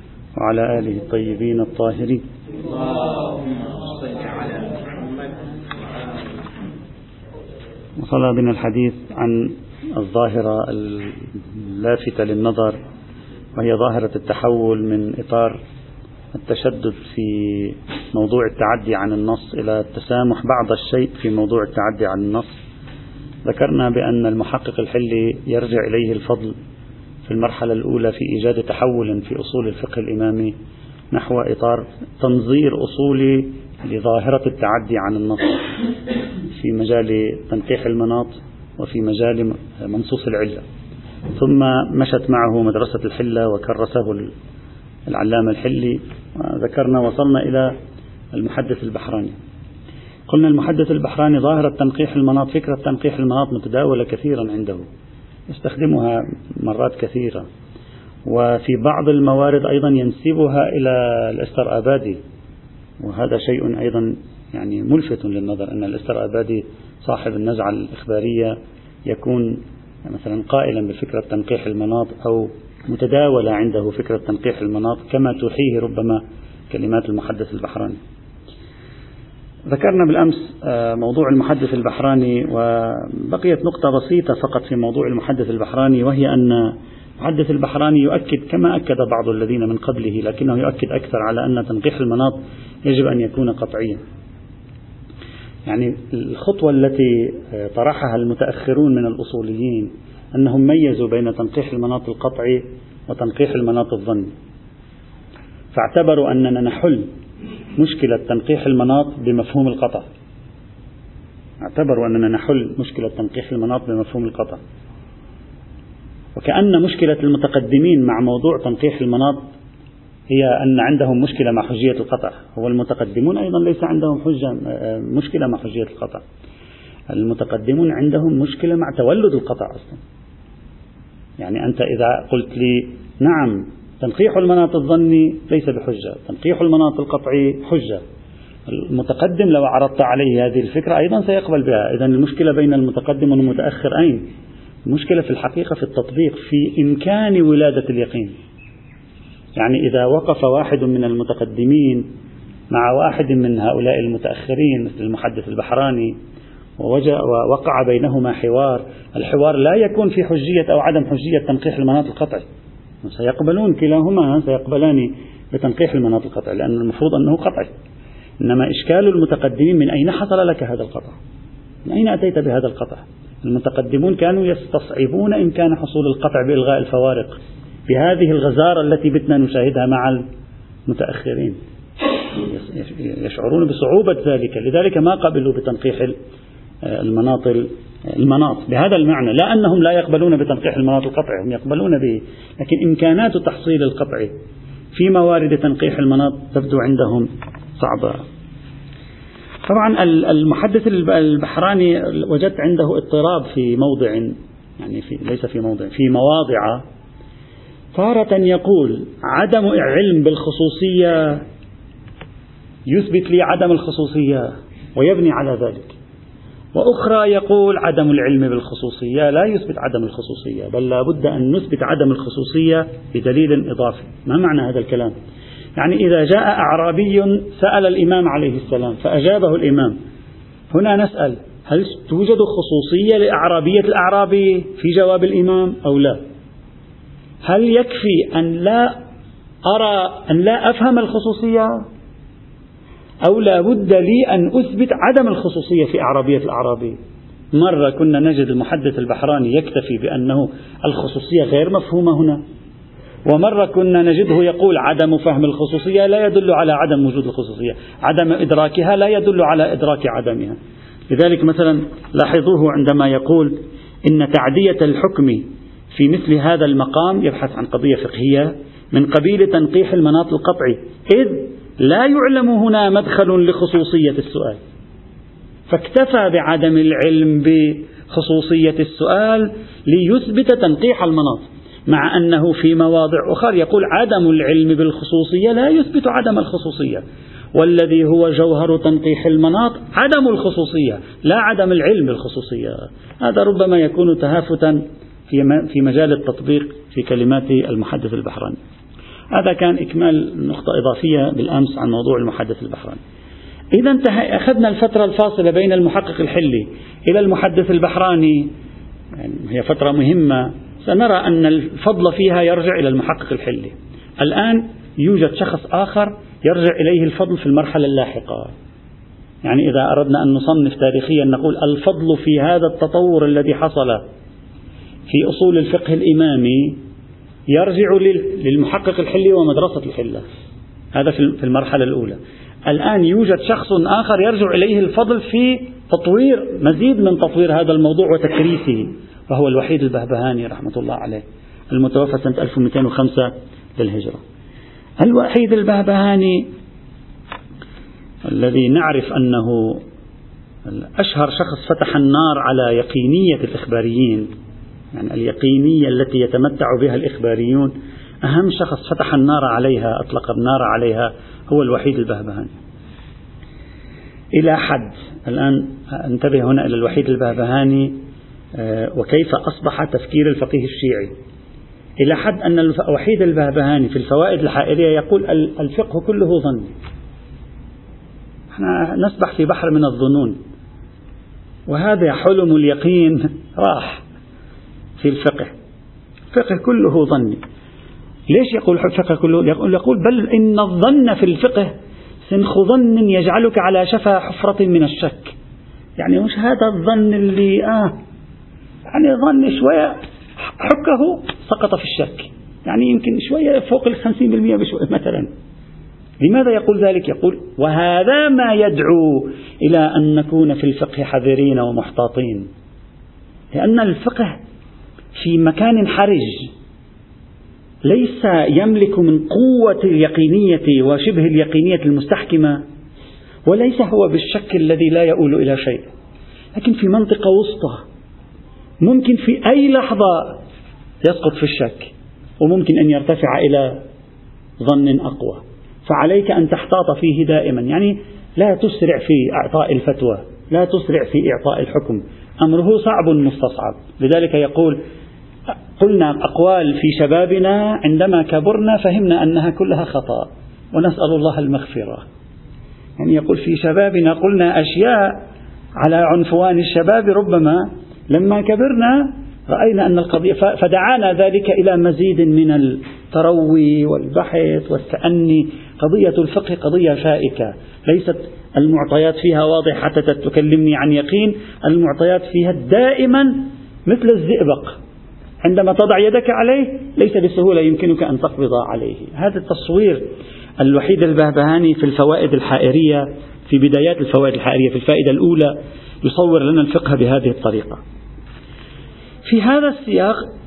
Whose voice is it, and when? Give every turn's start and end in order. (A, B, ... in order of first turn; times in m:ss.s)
0:00.4-0:02.2 A
0:08.0-0:12.8 A
0:13.6-0:15.6 A
0:16.3-0:22.6 A
0:23.4-0:26.6 A
0:27.2-0:30.5 A
0:31.1-0:35.6 A
0:36.6-0:40.6 A
0:41.4-0:44.3 A
0:45.1-0:47.7 A
0:48.3-0:49.4 A
0:50.3-0:54.9 A
0:55.5-0:57.5 A
0:58.2-1:02.2 A
1:03.0-1:08.6 A
1:09.1-1:18.0 A
1:19.7-1:34.0 A
1:35.6-1:44.3 A
1:45.7-1:47.1 A
1:47.8-1:50.1 A
1:51.6-1:54.6 A
1:56.4-1:59.5 A
2:00.3-2:06.2 A
2:07.1-2:10.0 A
2:11.4-2:18.0 A
2:18.7-2:24.3 A
2:24.8-2:28.3 A
2:29.6-2:32.1 A
2:32.7-2:36.2 A
2:36.8-2:42.4 A
2:43.0-2:47.7 A
2:48.4-2:51.2 A
2:51.8-3:00.2 A
3:00.9-3:01.6 A
3:02.4-3:06.2 A
3:06.8-3:14.3 A
3:14.9-3:18.2 A
3:19.6-3:26.8 A
3:27.9-3:31.4 A
3:32.9-3:35.9 A
3:36.7-3:45.1 A
3:45.8-3:50.0 A
3:50.7-3:56.2 A
3:57.4-3:59.0 A
3:59.6-4:01.8 A
4:03.2-4:07.0 A
4:07.5-4:12.4 A
4:13.2-4:20.6 A
4:21.1-4:34.6 A
4:35.7-4:47.0 A
4:47.5-4:58.6 A
4:59.3-5:03.0 A
5:03.7-5:08.5 A
5:09.2-5:18.5 A
5:19.4-5:24.0 A
5:25.1-5:26.8 A
5:27.5-5:30.2 A
5:30.9-5:44.2 A
5:45.0-5:46.5 A
5:48.2-5:49.8 A
5:50.7-5:54.3 A
5:54.9-6:02.5 A
6:04.4-6:08.0 A
6:08.6-6:11.1 A
6:12.0-6:16.7 A
6:18.5-6:20.4 A
6:21.7-6:24.0 A
6:25.0-6:25.5 A
6:26.3-6:27.4 A
6:28.3-6:31.7 A
6:32.2-6:35.3 A
6:36.0-6:38.0 A
6:38.9-6:40.0 A
6:40.6-6:45.3 A
6:46.2-6:52.5 A
6:53.5-6:54.4 A
6:55.1-6:56.5 A
6:57.8-7:02.6 A
7:03.4-7:05.9 A
7:06.5-7:07.8 A
7:08.8-7:10.4 A
7:11.0-7:13.8 A
7:14.6-7:24.8 A
7:25.8-7:32.0 A
7:33.0-7:35.2 A
7:35.8-7:54.8 A
7:55.4-8:00.1 A
8:00.6-8:07.8 A
8:09.2-8:10.2 A